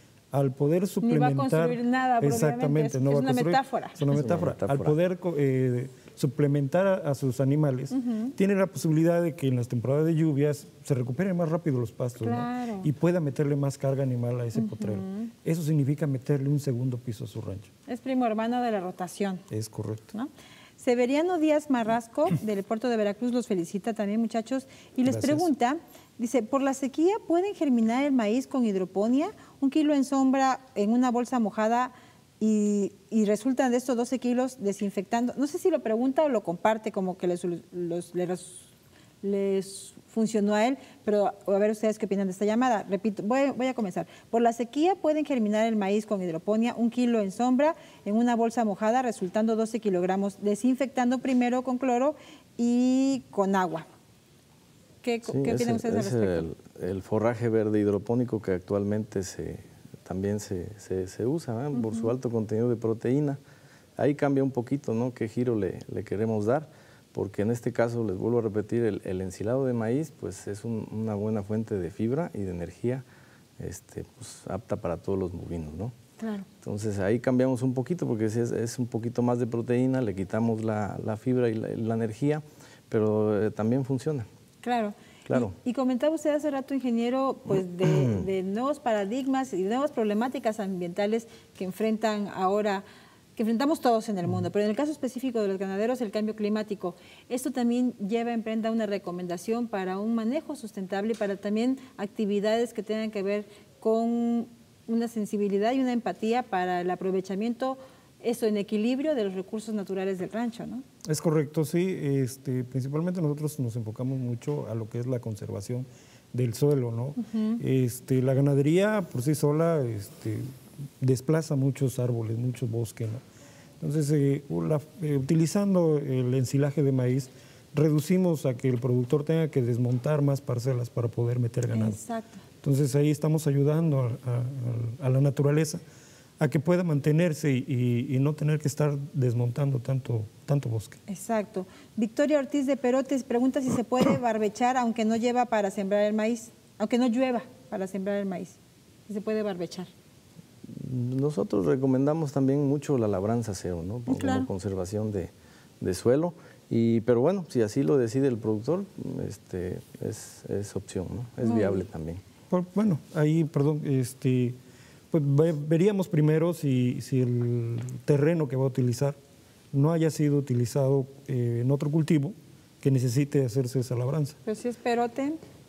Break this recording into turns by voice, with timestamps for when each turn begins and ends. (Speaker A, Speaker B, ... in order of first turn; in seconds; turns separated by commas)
Speaker A: 0.3-17.7, Speaker B: 1.0-4.1, Speaker C: 4.1-5.0, Speaker B: 7.9-8.3, Speaker B: 12.2-12.9, Speaker B: 14.5-15.3, Speaker B: 17.9-19.4, Speaker A: 19.5-20.0, Speaker B: 20.1-38.7, Speaker A: 25.1-25.5, Speaker B: 39.2-53.9, Speaker B: 55.0-56.4, Speaker C: 55.3-63.4, Speaker B: 61.7-62.1, Speaker C: 64.0-73.0, Speaker C: 73.6-75.9, Speaker B: 76.2-76.5, Speaker C: 76.6-84.3, Speaker B: 84.6-92.8, Speaker C: 85.3-85.5, Speaker C: 88.0-88.2, Speaker B: 93.3-110.8, Speaker A: 111.0-123.2, Speaker B: 117.2-117.6, Speaker A: 123.8-132.0, Speaker B: 131.7-132.4, Speaker A: 132.6-135.8, Speaker A: 136.4-141.0, Speaker B: 141.1-148.6, Speaker B: 149.1-149.9, Speaker C: 150.6-162.2, Speaker B: 154.1-154.5, Speaker B: 161.4-161.8, Speaker A: 162.5-164.6, Speaker A: 165.1-169.2, Speaker A: 169.7-174.4, Speaker B: 174.4-175.4